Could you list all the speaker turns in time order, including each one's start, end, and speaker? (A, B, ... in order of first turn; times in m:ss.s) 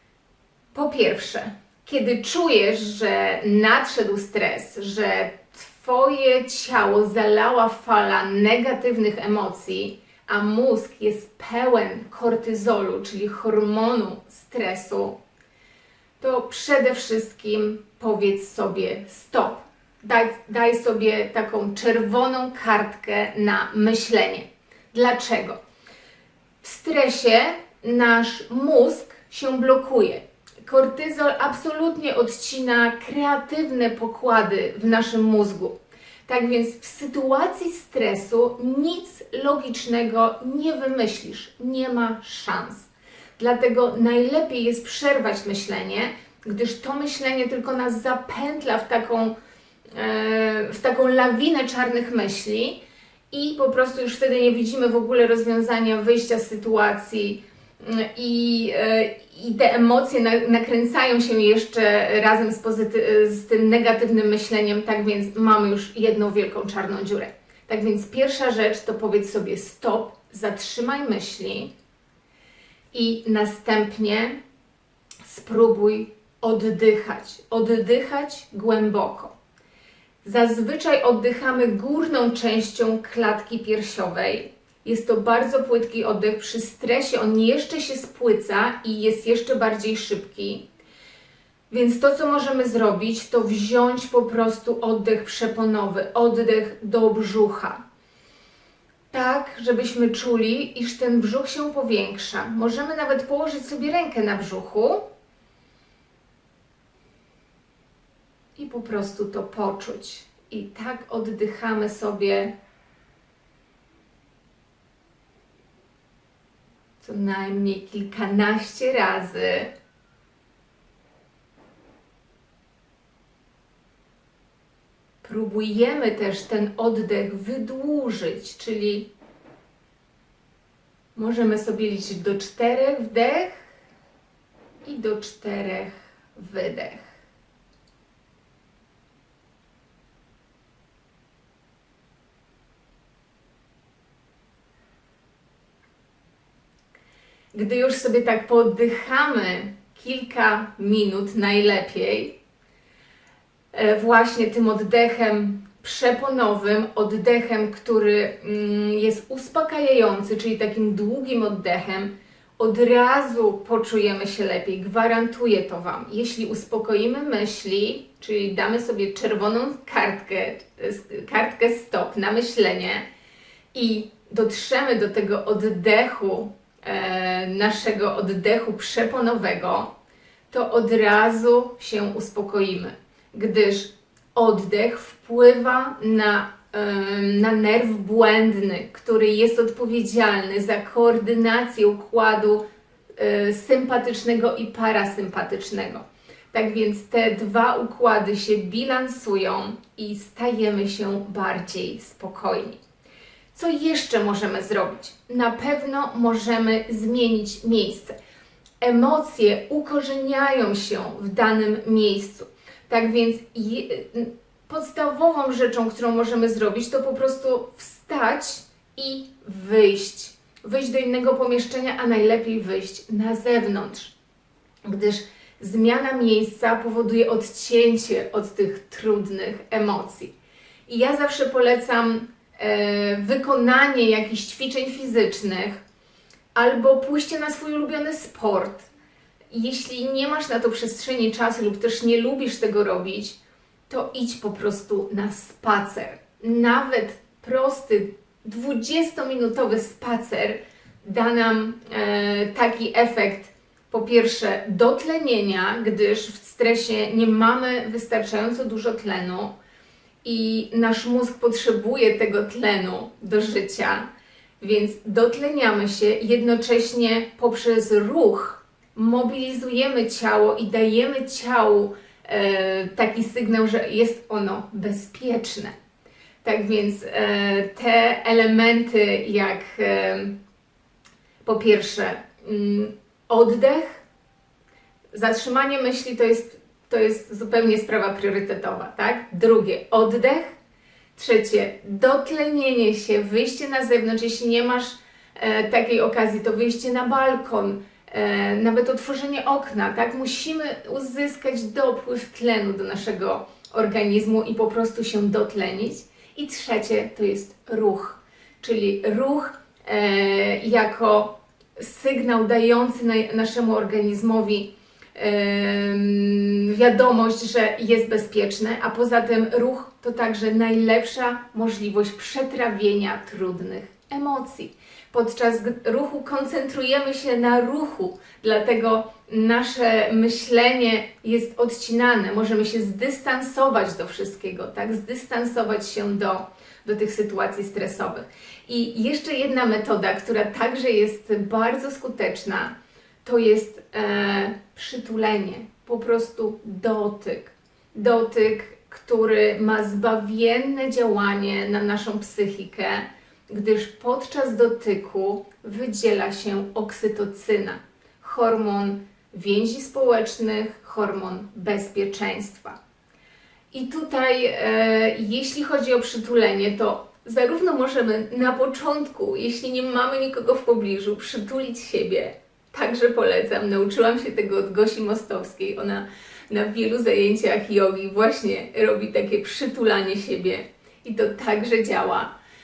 0:00.7-0:15.2 A
0:16.2-0:25.6 A
0:26.6-0:35.7 A
0:36.3-0:49.3 A
0:49.9-0:52.8 A
0:53.3-1:11.7 A
1:12.9-1:14.4 A
1:15.2-1:19.3 A
1:20.2-1:30.6 A
1:31.7-1:37.8 A
1:39.1-1:45.0 A
1:48.6-1:52.5 A
1:57.0-1:59.7 A
2:05.2-2:09.1 A
2:11.1-2:13.6 A
2:14.8-2:17.1 A
2:27.5-2:32.4 A
2:33.7-2:53.0 A
2:53.7-2:59.9 A
3:00.5-3:12.6 A
3:13.2-3:22.8 A
3:23.5-3:28.1 A
3:28.8-3:44.1 A
3:44.8-3:50.3 A
3:50.9-3:55.8 A
3:56.5-3:58.9 A
3:59.5-4:03.4 A
4:03.9-4:19.5 A
4:20.2-4:24.0 A
4:24.6-4:35.7 A
4:36.4-4:40.4 A
4:41.4-4:44.0 A
4:45.1-4:50.5 A
4:51.1-6:02.8 A
6:03.7-6:22.3 A